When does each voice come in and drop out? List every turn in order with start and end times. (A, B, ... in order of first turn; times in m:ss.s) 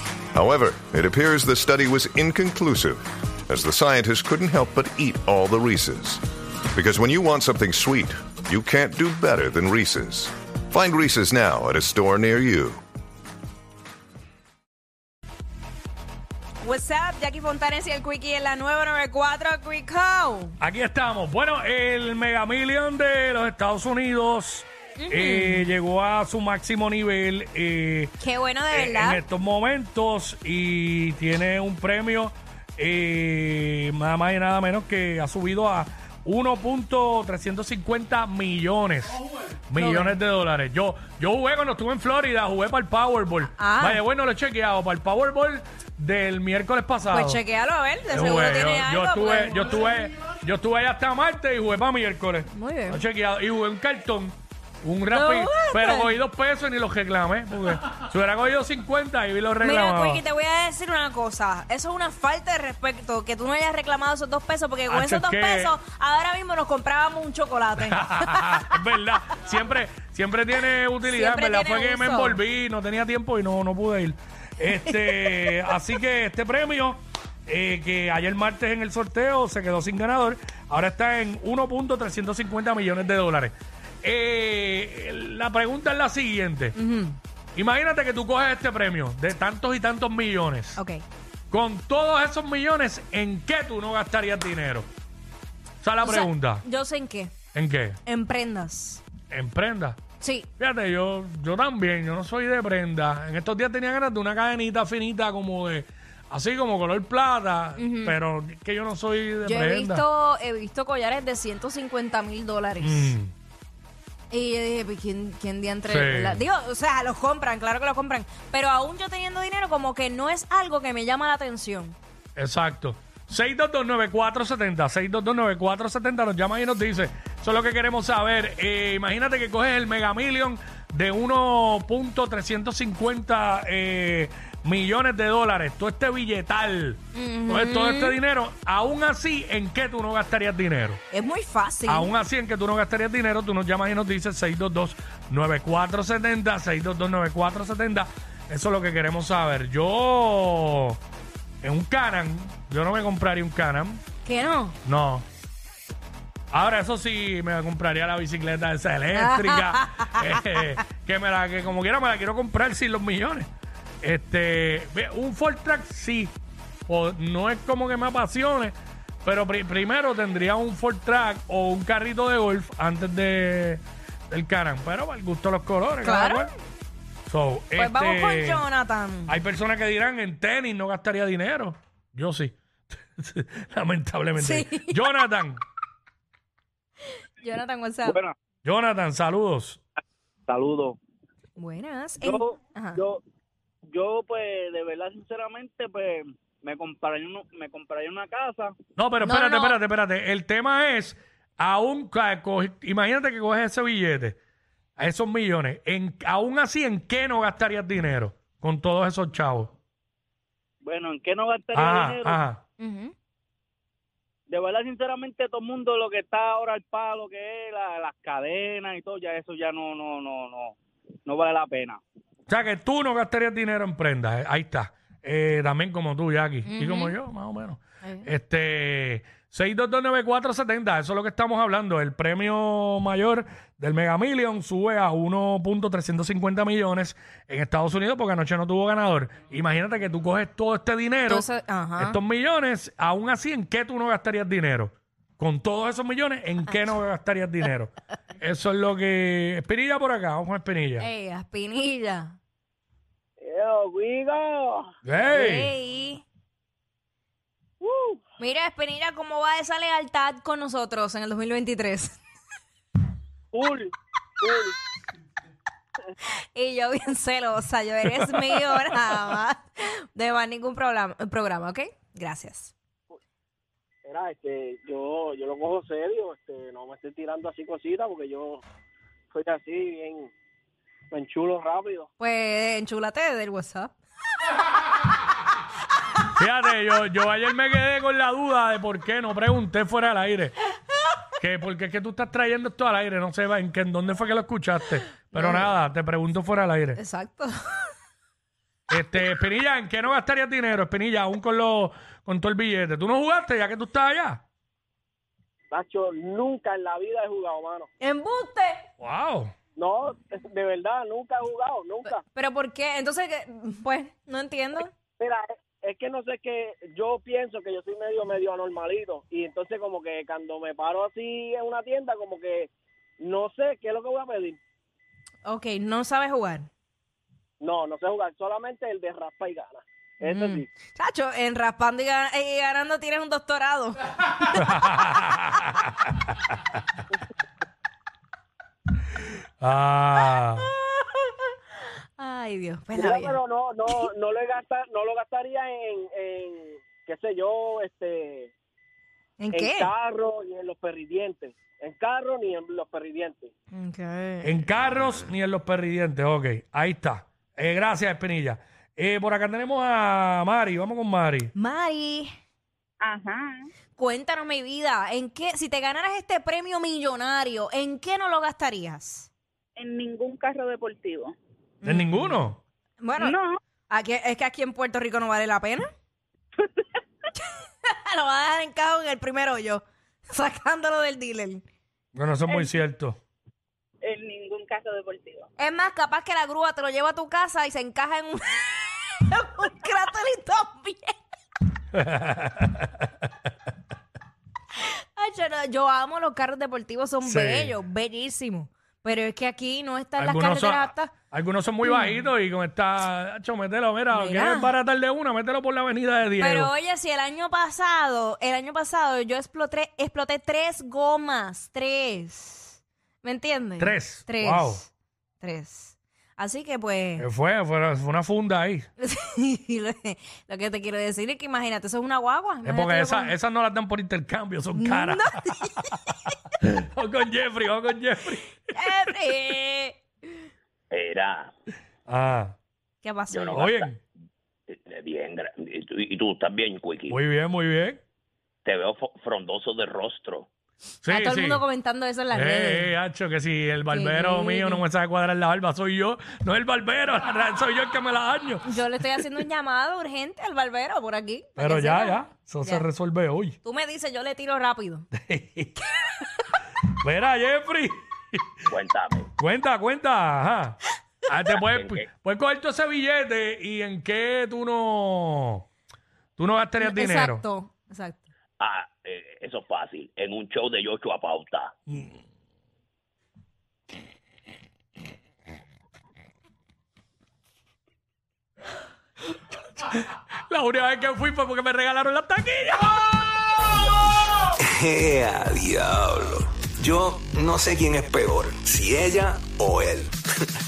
0:00.3-0:06.2 A
0:06.7-0:12.8 A
0:16.6-0:20.6 B
0:20.6-0:28.2 C
0:25.0-0:25.7 B
0:28.2-0:29.2 B
0:28.7-0:47.4 C
0:39.8-0:40.2 B
0:43.5-0:44.0 B
0:47.1-0:49.8 B
0:48.1-1:00.2 C
0:52.5-0:53.0 B
0:55.1-0:56.2 B
0:59.6-1:08.8 B
1:04.9-1:05.8 C
1:07.9-1:26.8 C
1:11.0-1:12.4 B
1:14.7-1:15.8 B
1:26.8-1:27.2 B
1:27.6-1:30.8 C
1:30.8-1:31.0 B
1:31.5-1:34.9 C
1:35.8-1:36.6 C
1:36.0-1:37.4 B
1:37.5-1:38.0 C
1:38.1-1:39.0 B
1:39.3-1:40.0 C
1:40.2-1:40.5 B
1:40.6-1:50.0 C
1:47.8-1:48.2 B
1:49.4-1:53.2 B
1:52.8-1:53.3 C
1:54.3-2:02.0 B
1:55.9-1:56.4 C
2:02.4-2:21.0 C
2:17.1-2:18.2 B
2:21.1-2:22.1 B
2:21.9-2:31.0 C
2:31.6-2:34.0 C
2:34.2-2:34.8 B
2:34.8-2:35.2 C
2:36.5-2:43.5 C
2:39.2-2:40.6 B
2:44.0-2:46.4 C
2:46.9-2:56.5 C
2:56.0-2:56.5 B
2:57.3-2:58.6 C
2:57.8-2:59.3 B
2:59.3-3:05.6 C
3:04.4-3:05.0 B
3:07.4-3:08.2 B
3:08.1-3:08.4 D
3:08.6-3:09.8 C
3:10.5-3:11.0 D
3:11.6-3:13.0 B
3:12.2-3:13.2 D
3:13.9-3:18.8 D
3:19.0-3:24.4 C
3:19.2-3:19.8 B
3:25.0-3:29.7 C
3:30.8-3:32.4 D
3:31.8-3:32.6 C
3:32.8-3:33.1 B
3:34.5-3:42.0 D
3:42.5-4:01.5 C
3:46.6-3:47.2 B
3:48.0-3:48.3 B
4:01.3-4:02.2 B
4:02.0-4:11.1 C
4:11.0-4:12.4 B
4:13.4-4:14.9 E
4:15.0-4:15.7 C
4:15.3-4:16.2 B
4:17.8-4:18.2 E
4:18.4-4:22.2 B
4:23.5-4:24.8 E
4:26.5-4:32.7 B
4:28.2-4:28.6 C
4:34.0-4:38.6 E
4:39.3-4:40.3 E
4:41.1-4:42.1 E
4:42.2-4:43.9 B
4:46.4-4:50.6 C
4:51.4-4:57.0 C
4:55.3-4:55.7 B
4:57.0-4:57.9 B
4:58.9-5:04.4 C
5:05.7-5:07.9 E
5:08.0-5:08.8 B
5:09.0-5:09.5 C
5:09.8-5:12.2 E
5:12.2-5:14.9 B
5:15.2-5:24.6 E
5:25.4-5:26.7 B
5:27.6-5:30.7 E
5:30.2-5:34.6 B
5:34.4-5:36.1 C
5:39.6-5:40.7 C
5:40.6-5:41.1 B
5:42.2-5:43.4 B
5:42.9-5:48.5 E
5:49.4-5:49.9 B
5:49.5-5:53.5 E
5:53.7-5:54.5 B
5:54.4-6:01.5 C
6:01.6-6:02.3 B
6:03.0-6:03.7 F
6:04.0-6:09.3 B
6:09.8-6:11.4 F
6:11.8-6:12.4 B
6:11.8-6:12.6 C
6:13.0-6:13.4 B
6:13.2-6:13.6 F
6:13.9-6:15.9 B
6:17.8-6:21.6 B
6:22.1-6:23.2 C
6:24.0-6:25.5 F
6:25.6-6:31.2 B
6:31.9-6:33.0 C
6:35.2-6:41.1 B
6:37.2-6:37.8 C
6:40.2-6:46.7 C
6:41.8-6:42.3 B
6:44.1-6:44.7 B
6:46.4-6:54.9 B
6:53.8-6:54.8 C
6:55.4-6:57.3 B
6:57.2-6:58.9 C
6:59.0-7:03.4 B
7:02.6-7:06.0 C
7:04.8-7:06.4 B
7:06.6-7:09.2 C
7:08.7-7:10.0 B
7:10.9-7:11.5 G
7:12.1-7:12.6 C
7:13.0-7:13.8 B
7:13.3-7:13.6 G
7:13.5-7:14.0 C
7:14.7-7:17.2 G
7:17.1-7:18.0 C
7:18.6-7:20.5 G
7:21.0-7:21.6 C
7:21.1-7:22.9 B
7:22.3-7:28.7 C
7:23.9-7:24.8 B
7:28.6-7:32.9 B
7:31.6-7:33.6 C
7:33.6-7:35.1 B
7:35.2-7:35.8 C
7:37.0-7:38.7 C
7:38.7-7:39.3 G
7:39.4-7:45.7 C
7:46.4-7:47.4 C
7:46.8-7:48.3 B
7:48.6-7:51.7 G
7:51.9-7:52.2 C
7:59.9-8:03.2 C
8:04.7-8:10.2 H